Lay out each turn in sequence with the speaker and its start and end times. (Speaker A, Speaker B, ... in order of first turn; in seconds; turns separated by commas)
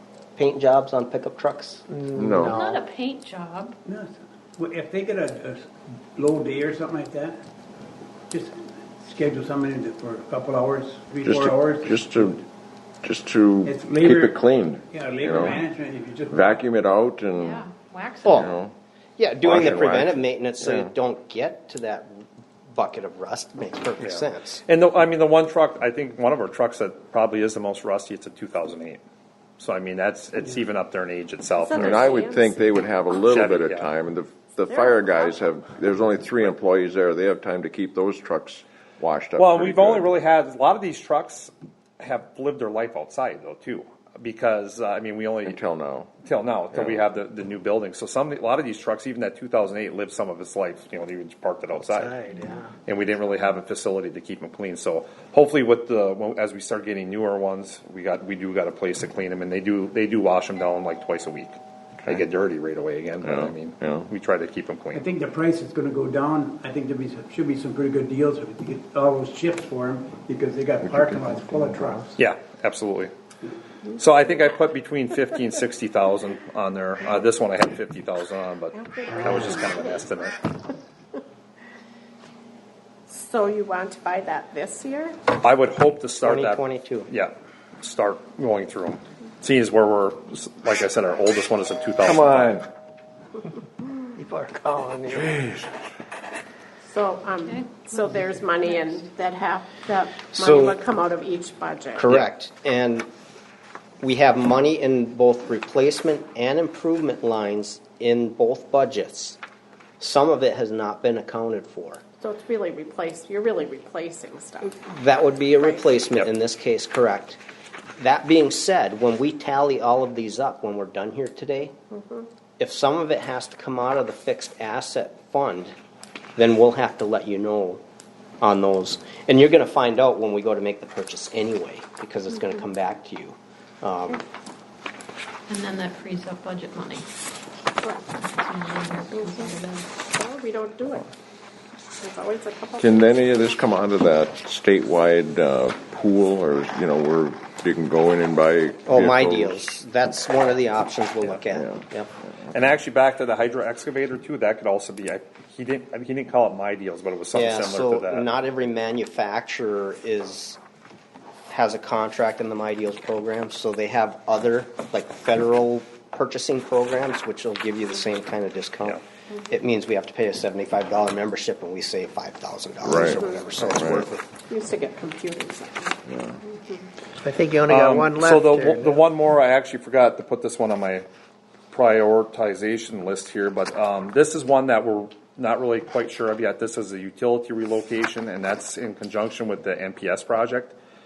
Speaker A: 0.4-1.8, Speaker B: 1.9-2.9, Speaker C: 2.2-2.6, Speaker D: 2.6-3.8, Speaker E: 3.9-7.4, Speaker E: 8.3-12.4, Speaker C: 11.2-12.4, Speaker C: 13.0-15.6, Speaker E: 13.6-16.6, Speaker C: 16.3-17.6, Speaker D: 17.4-18.5, Speaker A: 18.3-18.5, Speaker C: 18.3-18.7, Speaker A: 19.2-24.6, Speaker C: 19.4-20.9, Speaker F: 24.0-29.0, Speaker F: 29.6-32.2, Speaker C: 31.7-40.1, Speaker F: 33.3-33.9, Speaker F: 39.4-45.6, Speaker C: 45.5-46.1, Speaker F: 46.2-65.0, Speaker C: 46.7-47.0, Speaker B: 51.9-52.7, Speaker C: 63.2-64.1, Speaker E: 64.9-72.2, Speaker B: 71.4-72.0, Speaker F: 72.2-73.1, Speaker F: 74.0-80.5, Speaker G: 79.2-79.5, Speaker G: 83.1-85.1, Speaker F: 85.3-92.6, Speaker A: 86.2-87.1, Speaker C: 92.0-92.7, Speaker B: 94.2-95.4, Speaker C: 95.1-95.7, Speaker G: 96.9-102.0, Speaker D: 97.4-99.2, Speaker A: 100.4-100.8, Speaker A: 102.0-103.1, Speaker A: 104.0-109.4, Speaker A: 110.0-112.0, Speaker G: 112.2-114.7, Speaker A: 114.8-117.4, Speaker A: 118.0-121.7, Speaker A: 122.6-125.7, Speaker A: 126.4-127.8, Speaker A: 128.4-134.2, Speaker D: 135.5-137.1, Speaker D: 138.1-139.9, Speaker G: 140.0-141.0, Speaker G: 142.0-143.0, Speaker C: 142.8-149.8, Speaker A: 148.9-152.1, Speaker C: 151.5-151.8, Speaker F: 152.5-158.3, Speaker A: 157.3-160.6, Speaker A: 161.5-174.3, Speaker C: 172.8-174.1, Speaker G: 174.5-176.0, Speaker C: 176.1-176.4, Speaker B: 177.2-179.0, Speaker F: 177.7-181.1, Speaker F: 181.7-190.8